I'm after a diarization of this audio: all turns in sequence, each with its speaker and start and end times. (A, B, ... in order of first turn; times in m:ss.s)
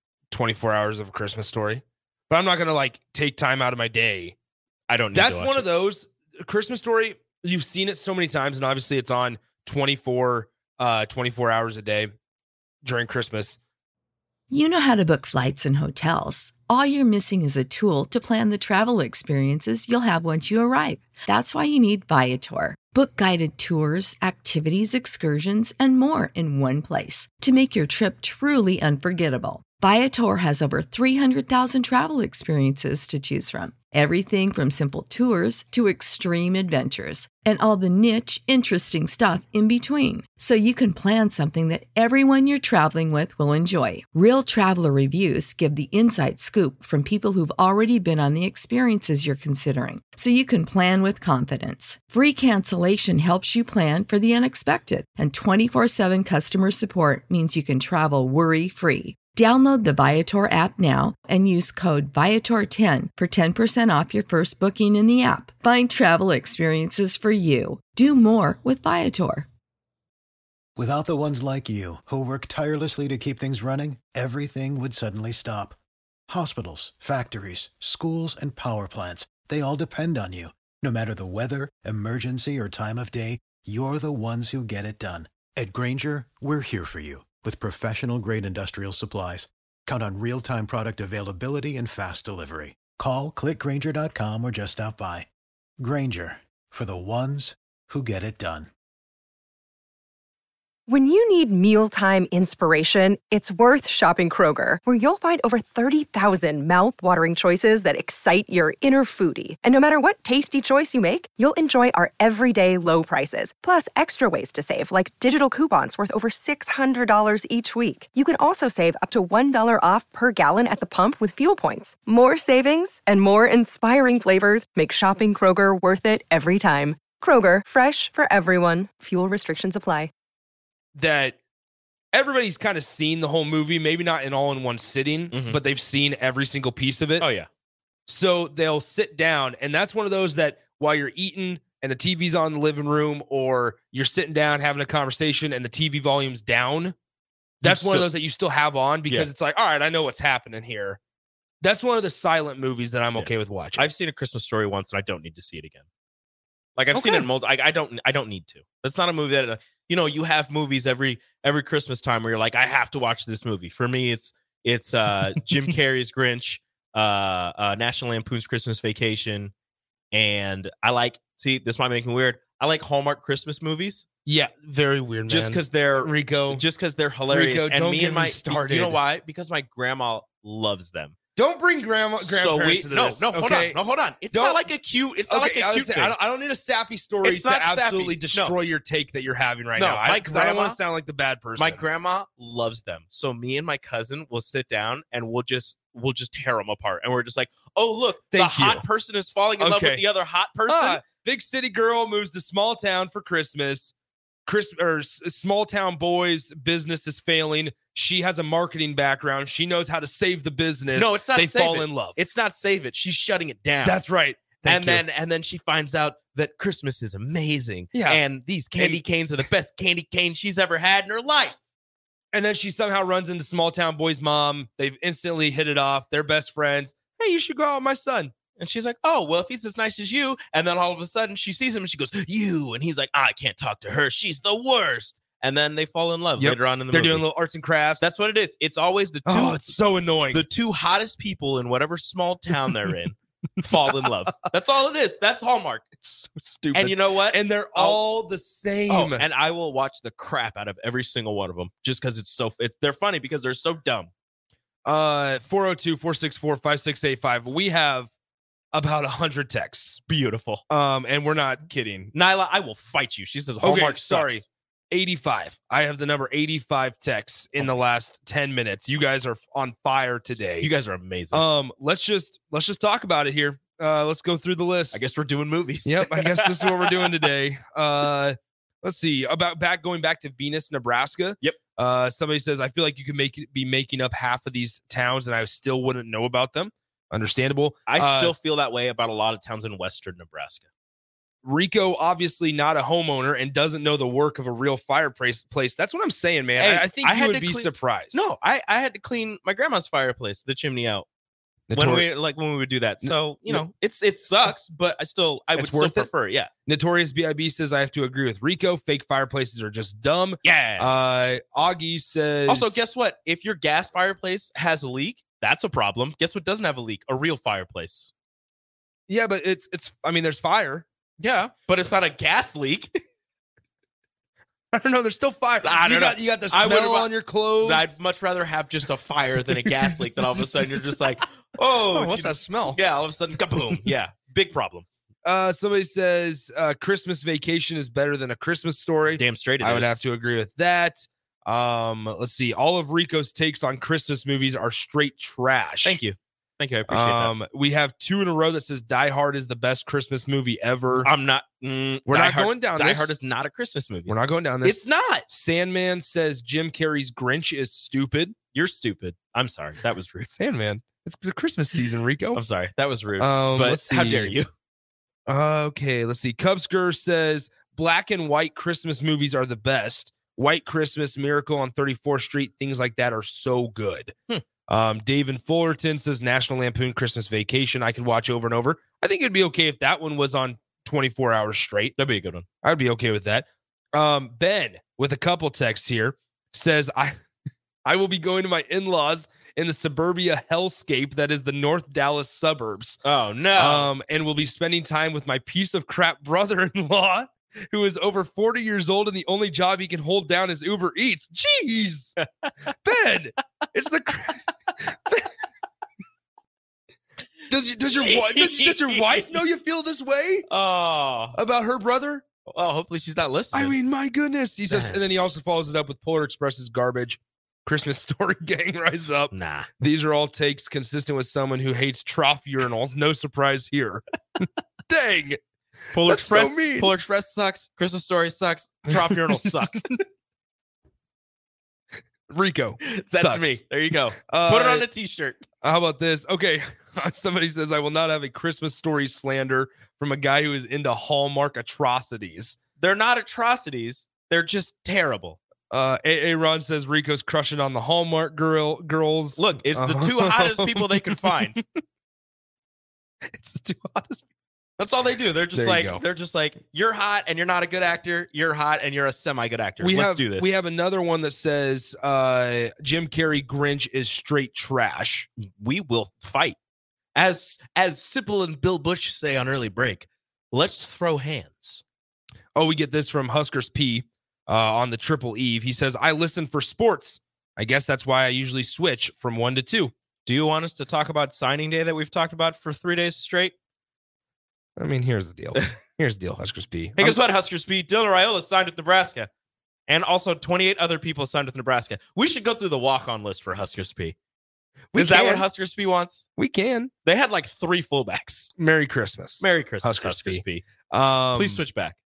0:00.3-0:04.4 A
0:04.9-0:05.7 B
0:05.1-0:12.1 A
0:12.8-0:13.6 A
0:14.5-1:09.5 C
1:10.8-1:15.8 D
1:16.3-1:35.3 D
1:35.8-1:38.7 D
1:40.9-2:10.1 E
2:11.0-2:11.4 A
2:12.1-2:17.3 A
2:15.3-2:15.6 B
2:17.2-2:17.5 B
2:18.1-2:26.9 A
2:27.6-2:28.1 B
2:27.6-2:31.0 A
2:31.6-2:33.9 A
2:33.2-2:35.9 B
2:36.8-2:49.5 B
2:36.9-2:37.3 A
2:50.1-2:54.0 B
2:54.2-2:56.6 A
2:55.3-3:01.2 B
2:57.3-2:59.0 A
3:01.4-3:03.8 A
3:02.2-3:06.2 B
3:04.3-3:04.6 A
3:05.3-3:11.8 A
3:07.2-3:08.6 B
3:09.8-3:10.8 B
3:11.6-3:21.0 B
3:18.3-3:18.8 A
3:19.6-3:20.0 A
3:20.7-3:23.9 A
3:24.4-3:32.2 A
3:30.9-3:34.0 B
3:33.8-3:35.0 A
3:34.6-3:41.6 B
3:37.9-3:38.2 A
3:38.8-3:39.0 A
3:42.3-3:48.3 A
3:48.6-3:57.2 B
3:56.4-3:58.0 A
3:58.0-3:59.8 B
3:59.2-4:00.4 A
4:00.3-4:05.9 B
4:03.6-4:04.1 A
4:06.0-4:09.2 A
4:06.7-4:08.0 B
4:08.9-4:14.1 B
4:14.8-4:18.1 A
4:18.7-4:20.0 A
4:20.1-4:20.6 B
4:20.7-4:22.1 A
4:22.1-4:24.5 B
4:23.6-4:30.7 A
4:30.6-4:31.4 B
4:31.3-4:35.0 A
4:34.9-4:37.2 B
4:35.8-4:48.3 A
4:47.9-4:50.7 B
4:51.4-4:58.2 A
4:56.6-5:01.0 B
5:01.7-5:02.0 A
5:01.7-5:06.5 B
5:03.0-5:03.6 A
5:05.6-5:06.1 A
5:06.6-5:12.9 A
5:10.4-5:10.9 B
5:12.5-5:18.1 B
5:19.1-5:20.8 A
5:21.2-5:22.9 B
5:24.7-5:28.0 A
5:25.6-5:34.9 B
5:29.5-5:31.0 A
5:31.8-5:32.8 A
5:35.2-5:46.0 A
5:39.2-5:40.0 B
5:45.8-5:47.3 B
5:46.9-5:51.1 A
5:51.0-5:55.3 B
5:52.1-5:53.1 A
5:54.1-5:58.4 A
5:58.5-6:00.3 B
6:00.3-6:02.4 A
6:02.3-6:04.5 B
6:03.2-6:04.4 A
6:05.3-6:14.1 A
6:14.7-6:21.9 A
6:22.0-6:22.4 B
6:22.6-6:27.2 A
6:27.8-6:33.0 A
6:33.0-6:33.9 B
6:33.5-6:42.2 A
6:42.2-6:42.5 B
6:42.8-6:45.3 A
6:47.5-6:50.5 A
6:47.9-6:49.4 B
6:50.5-6:51.4 B
6:51.3-6:52.2 A
6:52.5-6:53.8 B
6:53.5-7:05.4 A
6:54.7-6:55.0 B
6:59.3-6:59.7 B
7:05.9-7:10.0 B
7:05.9-7:06.9 A
7:08.9-7:09.6 A
7:12.3-7:13.6 A
7:12.8-7:15.4 B
7:14.3-7:14.9 A
7:15.6-7:22.6 A
7:22.8-7:25.4 B
7:25.7-7:31.8 A
7:29.4-7:31.6 B
7:33.2-7:34.2 A
7:34.8-7:40.5 B
7:35.5-7:36.0 A
7:39.8-7:45.3 A
7:45.4-7:46.6 B
7:47.1-7:51.8 B
7:52.6-7:59.9 A
8:00.2-8:03.5 B
8:04.8-8:07.2 A
8:07.0-8:09.3 B
8:09.9-8:14.2 B
8:14.9-8:15.4 A
8:14.9-8:16.2 B
8:16.4-8:16.9 A
8:17.0-8:18.5 B
8:18.6-8:21.6 A
8:19.4-8:20.7 B
8:21.3-8:22.0 B